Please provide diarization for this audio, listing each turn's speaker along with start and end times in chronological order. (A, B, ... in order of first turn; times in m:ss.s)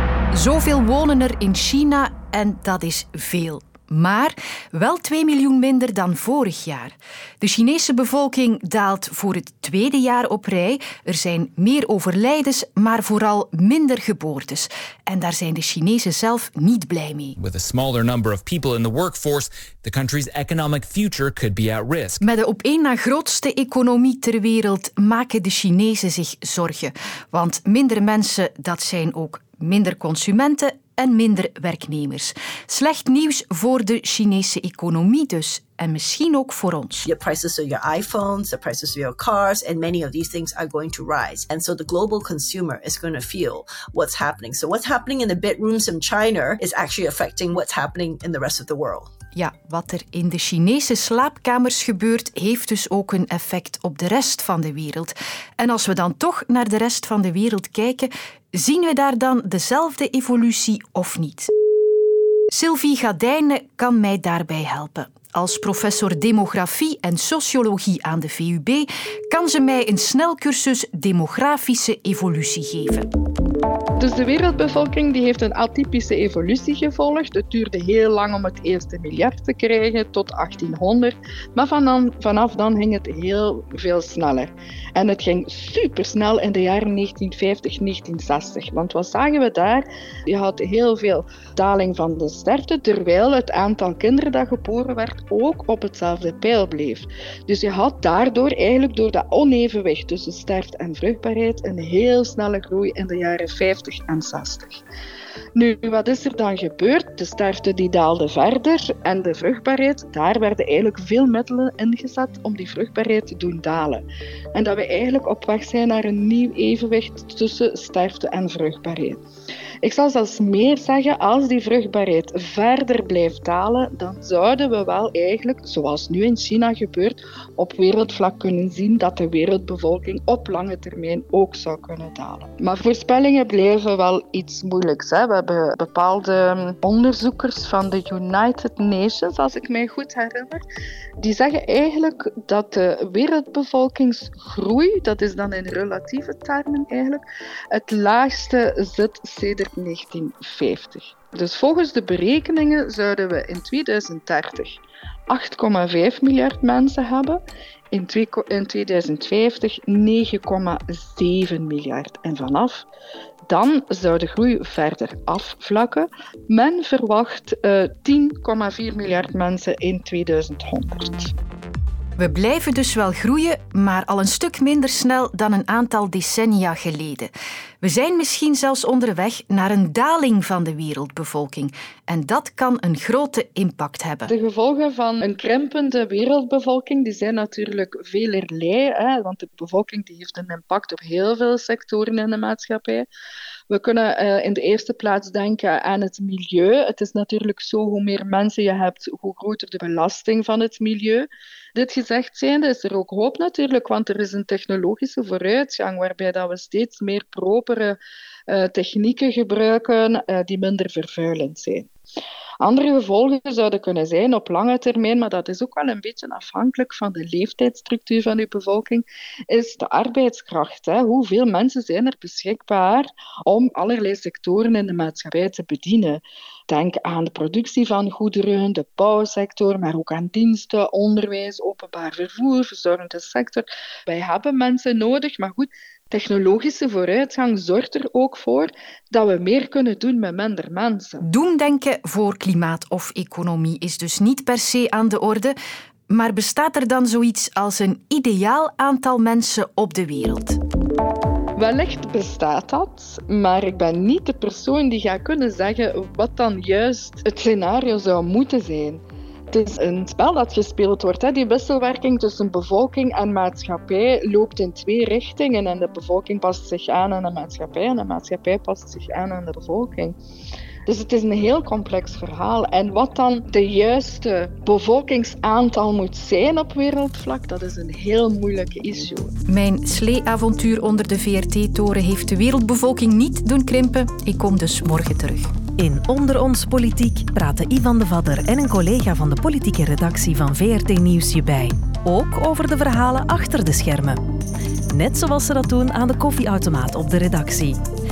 0:00.3-0:17.4 A
0:17.4-0:22.2 B
0:22.2-0:37.1 A
0:37.0-0:49.1 C
0:49.3-1:01.5 A
1:02.5-1:13.1 A
1:14.0-1:44.8 D
1:45.5-1:59.2 D
1:59.8-2:20.6 D
2:21.2-2:42.8 D
2:43.5-2:51.3 D
2:52.2-3:04.3 A
3:04.3-3:13.1 D
3:13.7-3:31.9 D
3:32.6-4:01.2 D
4:01.2-4:05.6 A
4:06.1-4:10.6 A
4:11.6-4:30.2 D
4:30.8-4:39.3 D
4:39.5-4:45.5 A
4:45.8-4:54.2 E
4:54.9-4:57.8 E